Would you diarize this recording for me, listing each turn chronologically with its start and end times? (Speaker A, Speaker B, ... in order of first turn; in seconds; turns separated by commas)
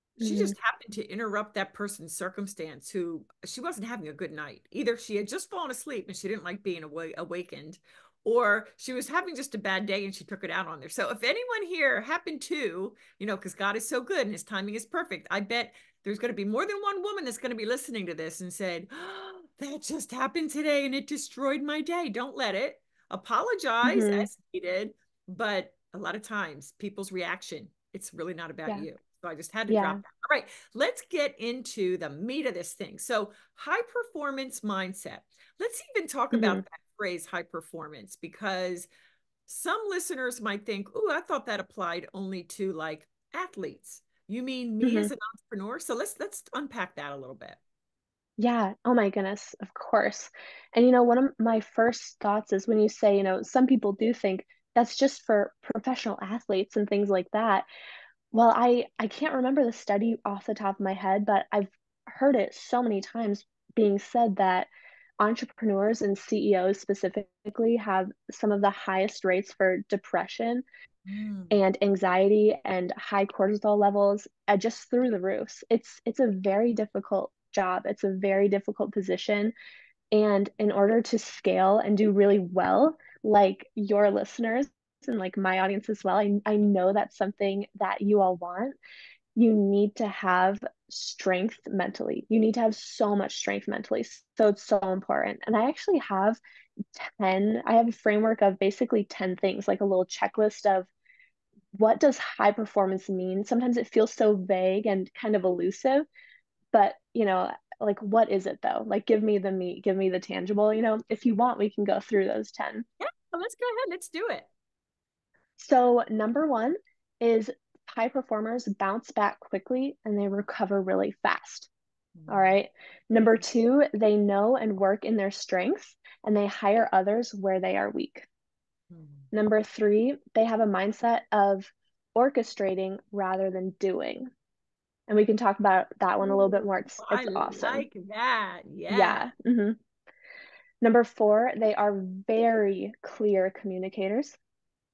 Speaker A: 0.2-0.5, Speaker B: 0.2-38.9, Speaker A: 23.8-24.3, Speaker A: 29.7-30.0, Speaker A: 36.3-36.6, Speaker B: 39.5-47.6, Speaker A: 44.8-45.1, Speaker A: 48.4-57.7, Speaker A: 58.3-70.7, Speaker B: 71.1-71.6, Speaker A: 71.5-79.5, Speaker A: 80.1-88.8, Speaker A: 89.4-96.4, Speaker A: 97.0-100.9, Speaker A: 101.7-106.0, Speaker A: 106.7-112.8, Speaker B: 113.0-114.5, Speaker A: 115.6-121.7, Speaker B: 122.2-122.6, Speaker A: 122.3-128.3, Speaker B: 128.9-129.3, Speaker A: 129.3-134.3, Speaker A: 135.1-137.8, Speaker B: 137.0-139.3, Speaker A: 138.9-139.8, Speaker A: 140.8-144.4